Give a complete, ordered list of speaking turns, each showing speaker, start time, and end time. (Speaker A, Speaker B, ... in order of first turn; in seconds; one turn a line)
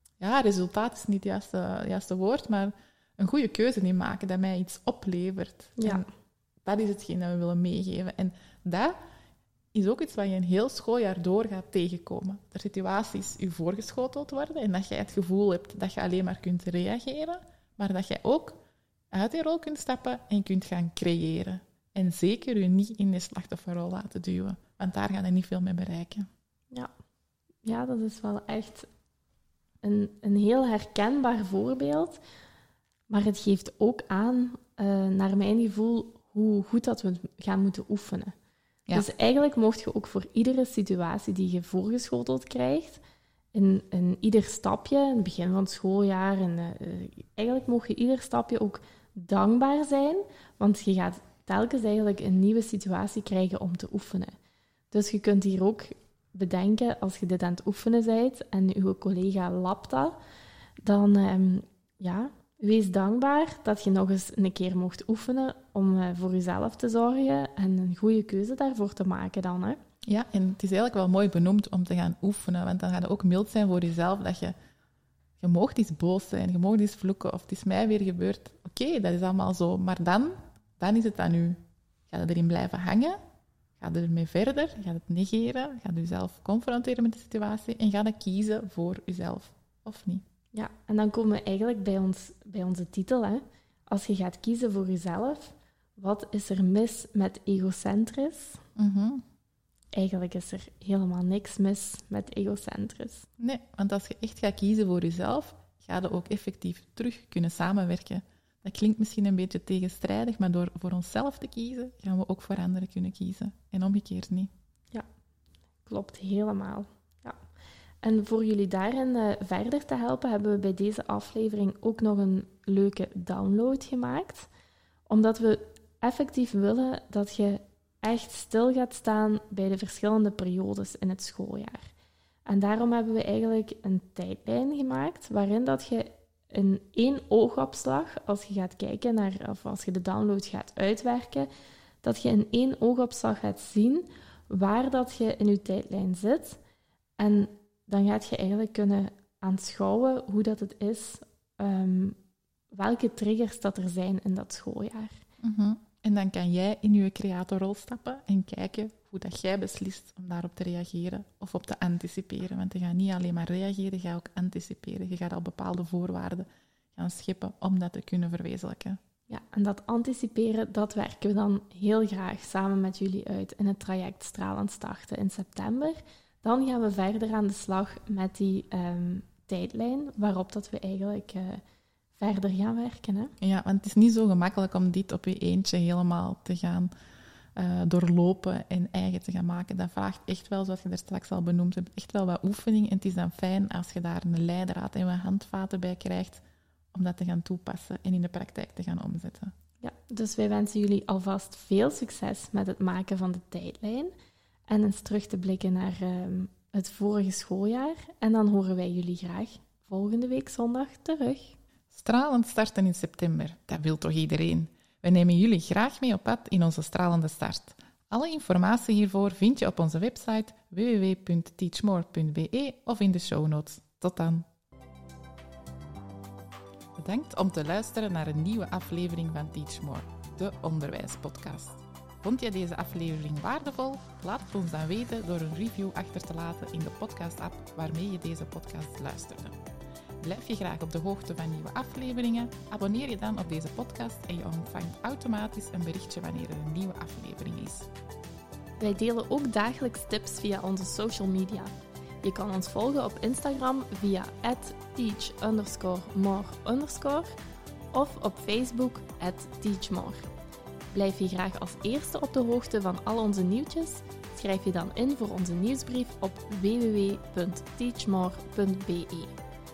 Speaker A: 0.2-6.0
Speaker B: 5.8-6.1
Speaker A: 6.7-8.9
Speaker A: 9.7-18.6
Speaker A: 19.1-26.3
Speaker B: 27.6-28.9
Speaker B: 29.8-32.2
Speaker B: 33.1-38.4
Speaker B: 38.9-43.0
Speaker B: 43.5-54.3
Speaker B: 54.9-60.2
Speaker B: 60.8-69.8
Speaker A: 70.0-74.5
Speaker A: 75.4-83.2
Speaker A: 83.8-90.2
Speaker B: 90.5-98.6
Speaker A: 98.8-99.2
Speaker B: 99.9-103.3
Speaker A: 103.4-114.5
Speaker B: 115.9-117.4
Speaker B: 118.0-124.5
Speaker B: 125.1-131.9
Speaker B: 132.5-141.5
Speaker B: 142.0-146.6
Speaker B: 147.2-152.2
Speaker B: 152.7-155.2
Speaker A: 155.4-169.0
Speaker B: 169.3-181.6
Speaker B: 182.2-183.3
Speaker A: 183.4-186.9
Speaker A: 187.6-199.5
Speaker B: 199.8-204.1
Speaker B: 204.7-211.6
Speaker A: 211.9-224.5
Speaker A: 227.0-239.6
Speaker A: 240.2-247.9
Speaker B: 248.8-257.3
Speaker B: 257.9-260.3
Speaker B: 260.9-269.4